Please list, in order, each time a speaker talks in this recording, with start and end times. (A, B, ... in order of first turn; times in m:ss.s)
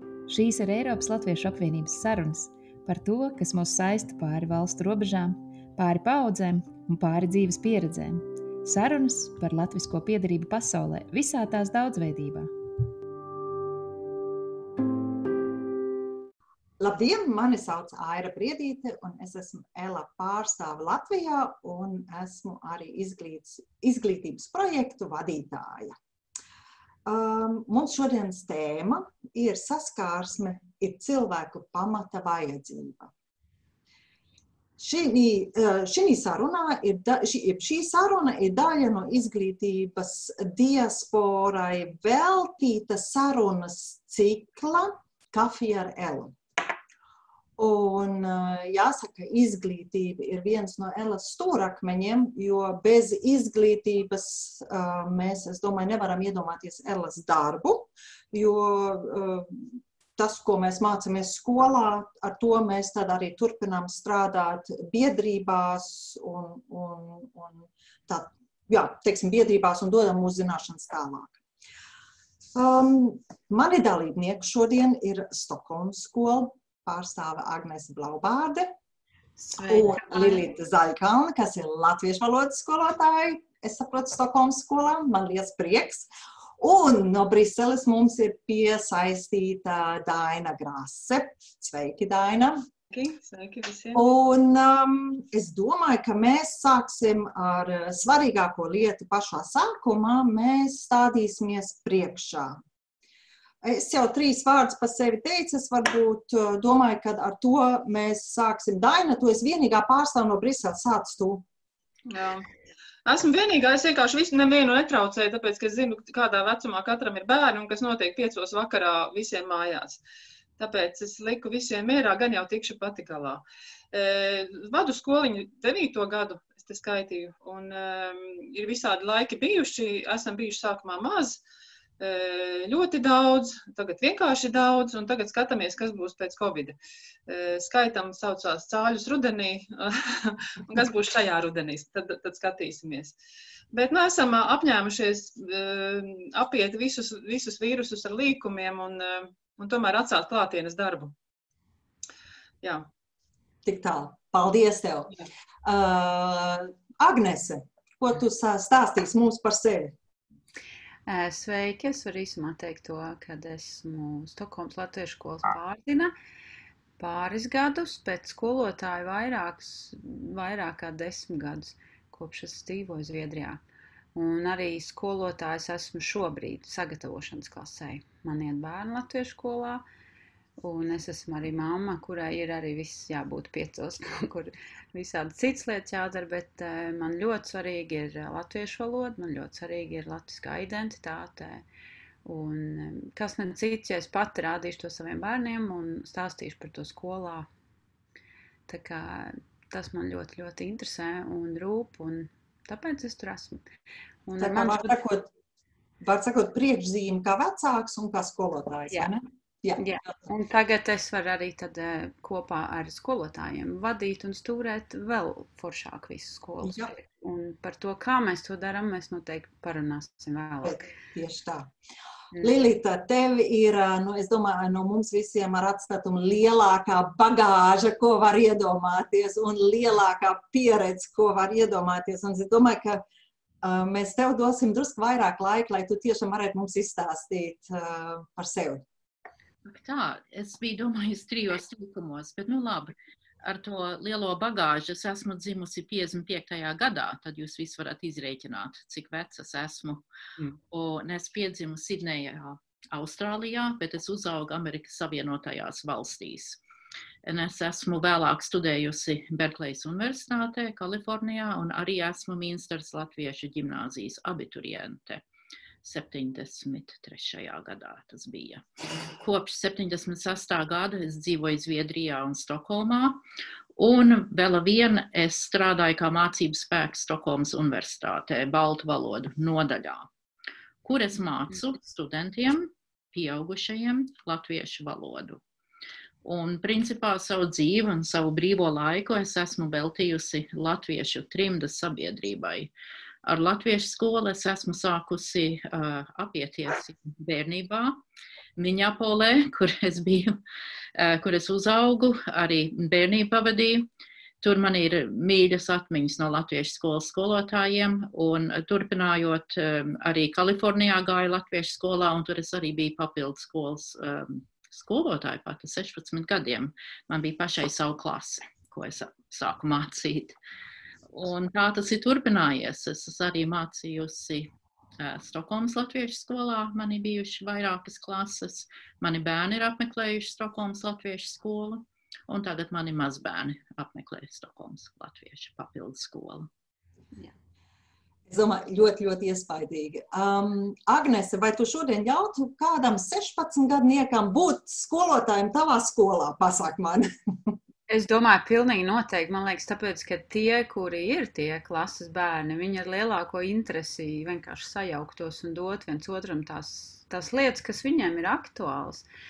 0:00.3-0:12.5 A
0:16.8-0:26.0 B
0:27.0-0:33.1 B
0:34.8-0:46.3 B
0:47.6-1:11.4 B
1:12.5-1:18.7 B
1:19.4-1:20.4 C
1:19.6-1:26.1 B
1:26.6-1:32.6 B
1:32.9-1:34.0 D
1:33.9-1:42.6 B
1:43.6-1:51.4 B
1:52.1-1:52.4 D
1:53.0-2:00.0 D
2:00.6-2:11.4 D
2:12.0-2:16.8 D
2:17.3-2:23.1 D
2:23.7-2:31.1 D
2:33.6-2:39.9 B
2:41.1-2:46.1 C
2:47.0-2:53.6 C
2:54.1-2:59.8 C
3:00.6-3:11.6 C
3:12.2-3:17.5 C
3:18.7-3:23.6 C
3:24.2-3:24.9 C
3:24.4-3:25.3 B
3:26.0-3:29.8 B
3:29.8-3:40.9 C
3:36.6-3:36.9 B
3:40.6-3:41.7 B
3:42.4-3:53.0 B
3:53.6-3:58.8 B
3:59.6-4:10.0 E
4:10.7-4:16.6 E
4:17.2-4:25.2 E
4:25.8-4:28.6 E
4:29.2-4:33.2 E
4:33.8-4:40.1 E
4:40.8-4:45.4 E
4:46.2-4:52.7 E
4:53.2-4:58.0 E
4:58.6-5:00.4 E
5:01.0-5:03.9 E
5:04.4-5:20.4 E
5:21.1-5:36.5 E
5:38.3-5:47.5 B
5:47.9-5:59.0 C